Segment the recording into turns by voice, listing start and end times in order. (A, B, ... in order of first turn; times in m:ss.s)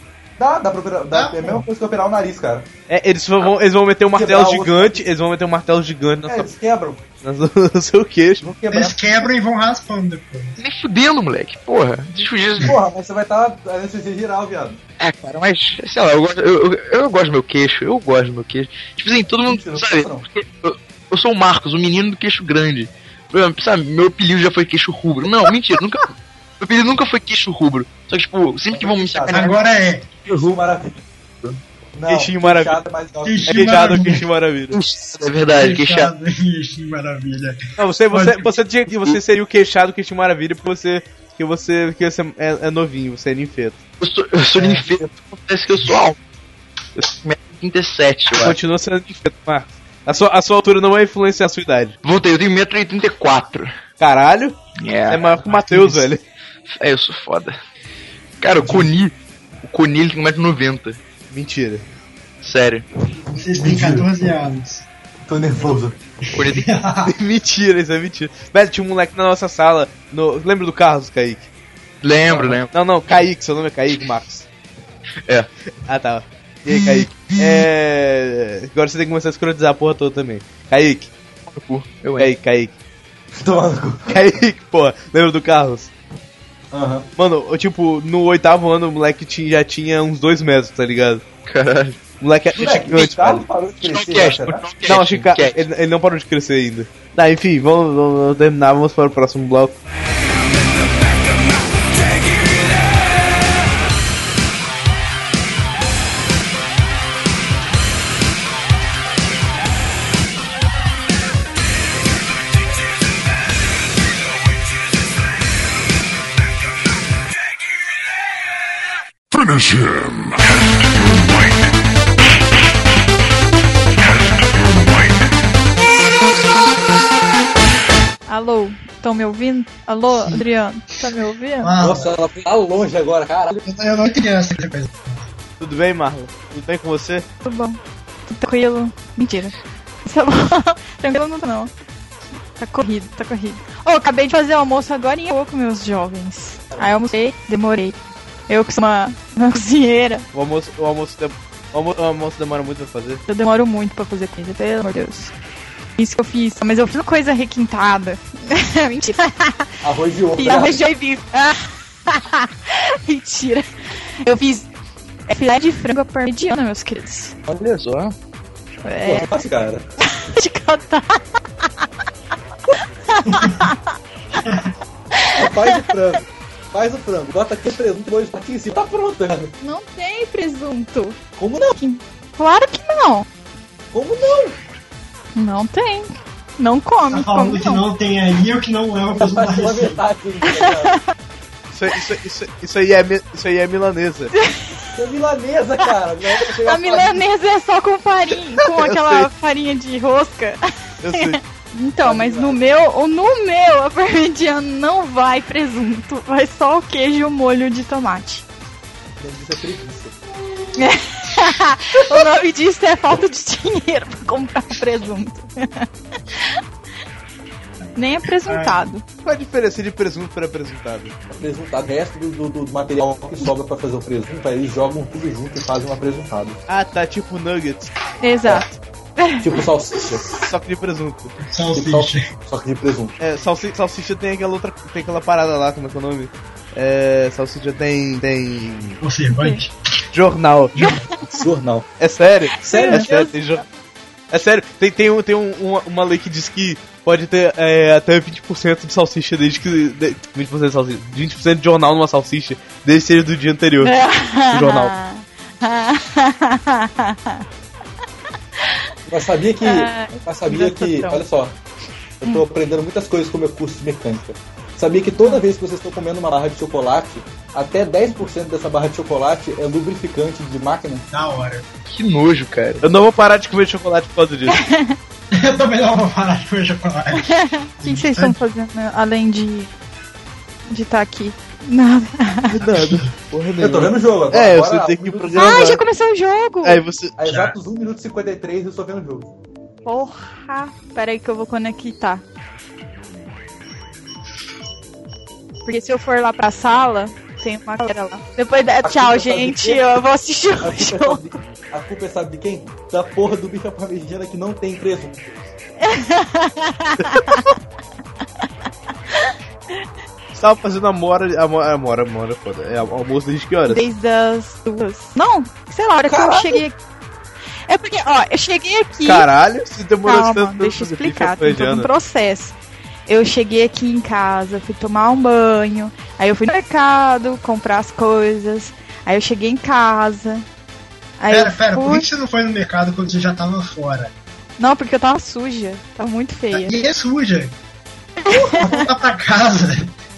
0:00.4-0:02.7 A
0:01.1-0:01.6 B
0:02.9-0:06.5 C
0:04.1-0:05.0 A
0:06.3-0:07.0 A
0:07.2-0:08.5 C
0:08.4-0:09.0 A
0:08.7-0:10.6 B
0:10.6-0:12.8 D
0:12.6-0:14.8 A
0:15.0-0:29.5 D
0:19.5-0:20.2 A
0:28.7-0:29.6 A
0:29.3-0:30.1 B
0:30.3-0:31.0 A
0:31.9-0:33.8 A
0:32.1-0:32.8 C
0:33.2-0:34.3 B
0:33.5-0:34.8 C
0:34.7-0:36.1 D
0:35.5-0:37.6 B
0:37.8-0:43.8 C
0:38.1-0:38.6 B
0:44.0-0:46.2 D
0:44.6-0:44.9 A
0:47.0-0:48.6 D
0:48.4-0:52.0 C
0:52.0-0:53.8 D
0:54.0-0:54.6 C
0:54.8-0:55.2 D
0:55.1-0:56.2 C
0:55.5-0:56.0 A
0:56.7-0:57.6 D
0:58.4-1:01.0 D
0:58.6-0:58.9 A
1:01.3-1:01.8 C
1:02.4-1:02.8 D
1:03.3-1:04.9 B
1:03.6-1:04.1 A
1:05.2-1:06.0 A
1:06.3-1:07.1 B
1:06.3-1:06.7 D
1:07.0-1:11.5 C
1:12.0-1:12.7 D
1:12.3-1:12.6 A
1:12.7-1:14.5 C
1:15.9-1:21.1 C
1:21.5-1:22.3 D
1:22.2-1:22.7 C
1:23.3-1:24.4 A
1:24.1-1:25.9 C
1:26.7-1:27.1 A
1:27.2-1:31.2 C
1:31.5-1:32.0 D
1:32.2-1:33.4 C
1:32.6-1:34.6 A
1:33.8-1:35.6 D
1:34.9-1:39.8 C
1:59.3-2:01.9 E
2:04.0-2:05.4 E
2:08.3-2:11.7 F
2:10.1-2:10.4 B
2:11.6-2:12.1 B
2:11.8-2:13.6 A
2:13.7-2:15.3 B
2:15.6-2:17.3 C
2:17.4-2:21.7 F
2:22.6-2:28.0 F
2:28.5-2:30.3 F
2:30.3-2:33.2 C
2:33.3-2:35.3 F
2:36.0-2:39.7 F
2:39.8-2:40.8 A
2:40.4-2:44.7 F
2:45.3-2:47.4 F
2:47.5-2:48.2 D
2:48.8-2:49.3 F
2:49.0-2:49.9 A
2:50.0-2:51.6 F
2:53.1-2:53.8 F
2:55.1-2:56.0 F
2:55.4-2:59.6 A
2:59.6-3:01.2 F
3:01.4-3:01.8 A
3:01.8-3:03.3 F
3:03.9-3:04.6 A
3:05.4-3:07.8 F
3:07.1-3:10.0 B
3:09.1-3:11.0 A
3:10.4-3:11.0 F
3:11.7-3:14.3 C
3:14.4-3:14.8 F
3:15.0-3:17.2 A
3:16.4-3:28.4 F
3:18.7-3:19.3 C
3:21.0-3:21.4 C
3:22.0-3:22.6 A
3:29.2-3:30.2 A
3:30.8-3:36.6 F
3:38.0-3:39.0 F
3:38.5-3:38.8 B
3:39.2-3:41.2 C
3:41.3-3:46.6 A
3:46.7-3:47.9 C
3:48.2-3:49.6 F
3:49.4-3:50.3 A
3:50.4-3:51.3 C
3:51.4-3:52.3 B
3:51.7-3:53.2 A
3:53.2-3:59.0 C
3:59.0-3:59.8 B
3:59.3-3:59.6 F
4:00.1-4:00.8 C
4:00.8-4:01.4 F
4:01.3-4:01.9 A
4:02.0-4:03.6 C
4:02.5-4:03.5 F
4:02.6-4:03.1 A
4:04.3-4:14.0 C
4:13.8-4:17.4 F
4:14.5-4:14.9 C
4:18.6-4:18.9 F
4:19.1-4:21.6 A
4:19.6-4:21.2 F
4:22.2-4:31.1 A
4:31.1-4:31.7 B
4:31.9-4:33.0 D
4:32.8-4:34.6 C
4:34.5-4:35.0 F
4:35.3-4:38.4 B
4:37.2-4:39.7 F
4:40.7-4:42.8 F
4:42.5-4:45.8 C
4:42.8-4:43.1 B
4:43.6-4:45.8 A
4:45.4-4:46.8 F
4:46.6-4:47.5 C
4:47.2-4:49.3 A
4:49.8-4:52.2 F
4:55.6-5:01.2 F
4:58.8-5:00.0 A
5:00.6-5:05.5 A
5:05.8-5:07.6 F
5:10.3-5:13.8 C
5:13.7-5:16.8 F
5:16.0-5:16.6 A
5:17.7-5:19.3 F
5:19.0-5:21.9 C
5:20.1-5:22.6 F
5:23.1-5:30.4 F
5:31.2-5:32.1 F
5:31.3-5:34.1 B
5:34.6-5:36.8 F
5:36.5-5:37.6 B
5:38.2-5:38.8 F
5:38.3-5:38.8 A
5:38.6-5:39.9 B